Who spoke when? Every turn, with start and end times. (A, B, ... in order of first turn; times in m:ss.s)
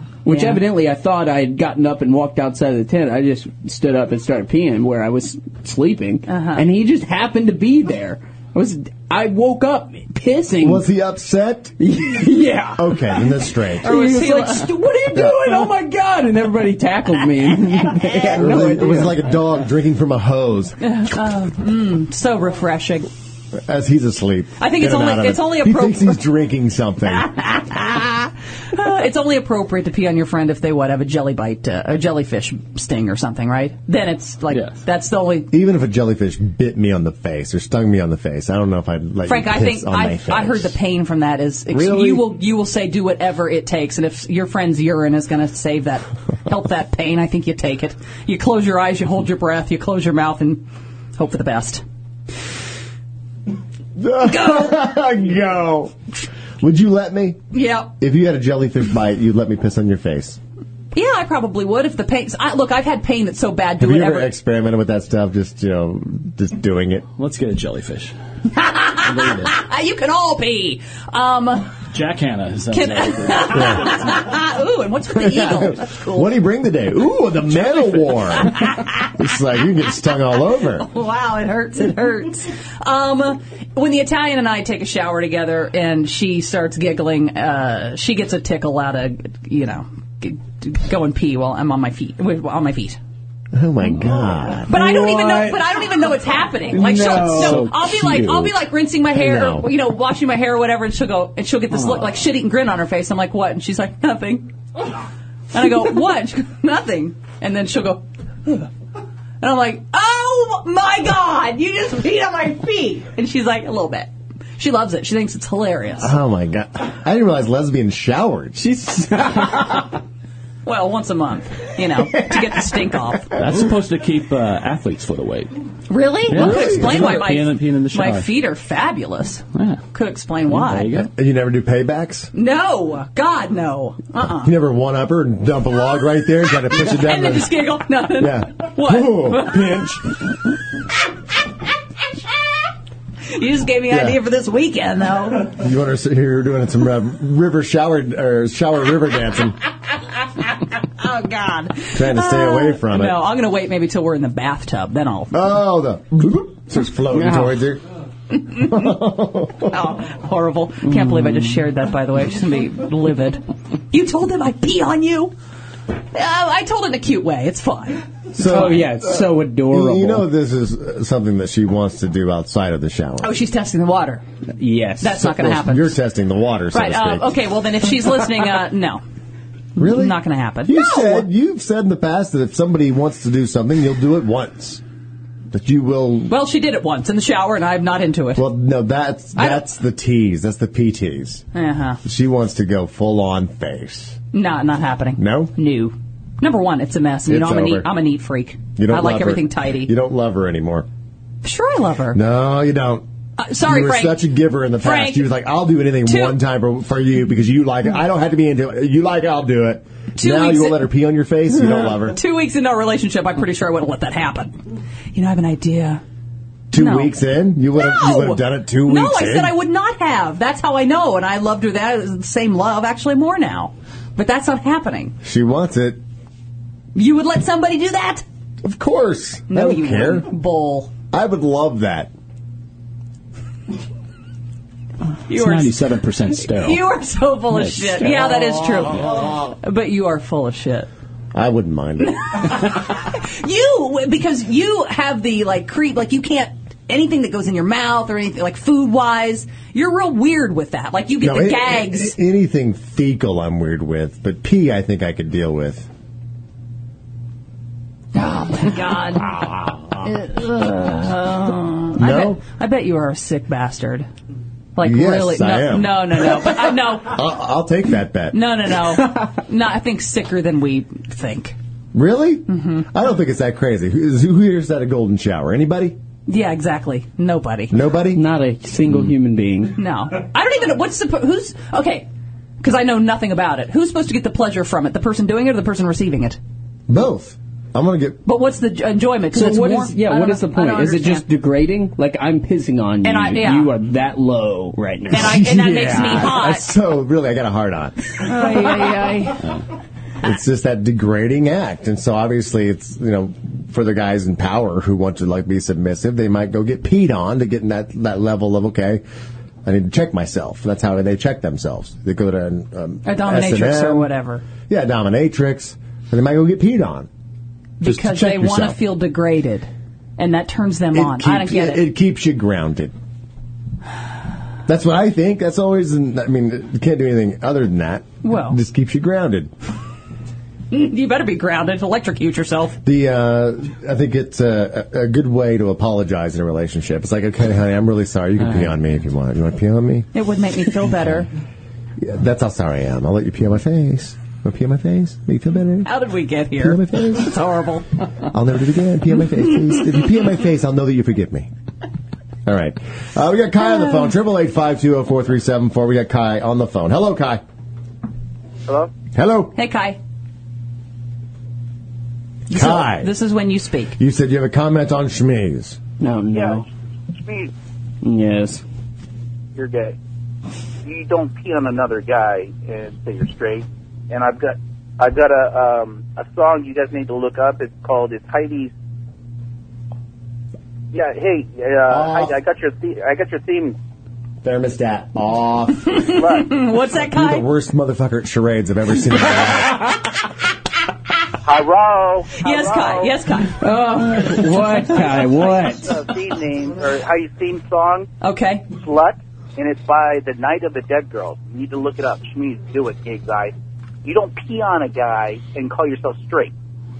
0:00.2-0:10.8 A
0:00.3-0:00.6 B
0:06.3-0:06.6 B
0:10.6-0:11.8 C
0:11.8-0:19.2 A
0:12.8-0:13.9 C
0:13.8-0:14.8 B
0:15.1-0:15.4 C
0:18.2-0:20.8 C
0:20.8-0:23.1 B
0:23.6-0:27.3 C
0:24.6-0:26.2 B
0:27.3-0:35.5 B
0:35.5-0:40.7 C
0:39.2-0:50.6 B
0:41.7-0:42.3 C
0:51.2-0:51.8 B
0:54.0-0:56.0 C
0:54.2-0:54.7 B
0:56.6-0:57.4 C
0:57.5-0:57.9 B
0:58.0-1:00.4 C
1:00.9-1:04.3 B
1:03.8-1:07.0 C
1:07.2-1:08.1 D
1:08.5-1:11.7 B
1:09.0-1:09.5 D
1:11.9-1:14.0 D
1:12.7-1:16.3 B
1:13.5-1:13.9 C
1:15.1-1:20.9 C
1:20.8-1:33.0 B
1:33.5-1:34.7 C
1:34.7-1:44.5 B
1:34.7-1:35.6 A
1:36.7-1:37.7 A
1:37.4-1:38.1 D
1:39.1-1:39.7 C
1:45.5-1:48.6 B
1:49.4-1:56.1 B
1:56.0-1:58.6 C
1:58.6-2:00.0 A
2:00.6-2:03.3 B
2:03.3-2:05.6 D
2:05.9-2:10.9 B
2:06.3-2:08.2 D
2:06.3-2:07.2 C
2:09.5-2:09.8 D
2:10.5-2:11.1 D
2:10.9-2:12.3 C
2:12.3-2:14.5 B
2:14.4-2:20.1 C
2:16.7-2:19.8 B
2:23.3-2:25.5 B
2:23.9-2:24.2 C
2:25.5-2:29.6 C
2:31.0-2:35.3 B
2:31.9-2:33.2 C
2:35.3-2:37.8 C
2:37.1-2:37.5 A
2:38.5-2:39.7 C
2:39.7-2:45.3 B
2:40.8-2:41.5 A
2:46.1-2:48.8 B
2:48.3-2:53.3 C
2:48.4-2:50.2 A
2:53.2-2:54.2 B
2:54.6-2:55.2 A
2:55.0-2:56.0 B
2:55.2-2:57.4 C
2:56.7-2:59.0 B
2:59.8-3:01.3 B
2:59.8-3:04.8 C
3:05.5-3:06.3 C
3:06.3-3:08.4 B
3:08.4-3:11.4 C
3:09.4-3:09.6 B
3:11.5-3:12.0 B
3:12.0-3:14.2 C
3:14.3-3:19.9 B
3:15.2-3:15.5 C
3:17.3-3:17.9 C
3:18.8-3:20.9 C
3:21.4-3:22.2 B
3:22.1-3:23.0 C
3:23.4-3:24.2 B
3:23.6-3:32.2 C
3:24.8-3:25.3 B
3:26.0-3:26.4 B
3:30.2-3:30.8 B
3:32.1-3:34.6 B
3:35.1-3:36.0 B
3:36.7-3:39.5 C
3:36.7-3:37.2 B
3:37.7-3:45.1 B
3:45.2-3:46.0 C
3:46.9-3:48.2 B
3:48.6-3:50.3 C
3:49.5-3:50.9 B
3:51.1-3:52.1 C
3:55.3-3:55.8 B
3:55.3-3:56.8 D
3:56.3-4:00.9 B
3:57.5-3:58.3 D
4:01.3-4:02.2 C
4:02.0-4:12.2 B
4:11.2-4:15.9 C
4:18.1-4:24.1 B
4:22.0-4:22.4 C
4:24.8-4:27.2 B
4:24.8-4:28.4 C
4:28.3-4:31.6 B
4:31.9-4:36.0 C
4:32.5-4:32.8 B
4:36.3-4:37.8 B
4:37.7-4:38.2 C
4:38.1-4:39.8 A
4:39.8-4:42.1 B
4:42.6-4:46.4 B
4:46.9-4:48.2 C
4:48.2-4:51.2 B
4:49.3-4:55.4 A
4:53.0-4:53.7 B
4:55.1-4:56.7 B
4:55.1-4:58.9 C
4:58.2-4:59.4 B
5:00.2-5:09.0 C
5:09.6-5:14.1 C
5:13.0-5:14.4 B
5:14.7-5:17.1 C
5:17.8-5:21.8 B
5:17.8-5:18.8 C
5:20.9-5:22.9 C
5:24.7-5:29.5 C
5:28.2-5:28.6 B
5:30.7-5:32.8 B
5:32.8-5:40.1 C
5:40.1-5:41.3 B
5:42.0-5:45.9 C
5:45.8-5:47.9 B
5:46.6-5:47.4 C
5:48.3-5:51.5 C
5:52.4-5:57.4 C
5:58.7-5:58.9 E
5:59.1-5:59.5 C
5:59.5-6:00.0 B
6:02.5-6:03.1 C
6:02.5-6:04.0 B
6:04.0-6:05.8 C
6:06.0-6:06.6 A
6:06.3-6:06.6 E
6:07.2-6:07.5 E
6:08.0-6:08.6 A
6:09.6-6:10.0 E
6:10.8-6:18.7 E
6:20.9-6:23.8 E
6:21.9-6:22.3 C
6:24.4-6:26.1 C
6:25.8-6:27.5 B
6:26.0-6:26.5 E
6:26.9-6:30.0 C
6:31.4-6:33.1 E
6:32.4-6:33.6 B
6:33.6-6:36.0 A
6:34.9-6:38.1 E
6:38.2-6:38.7 B
6:38.7-6:43.5 E
6:44.0-6:46.5 E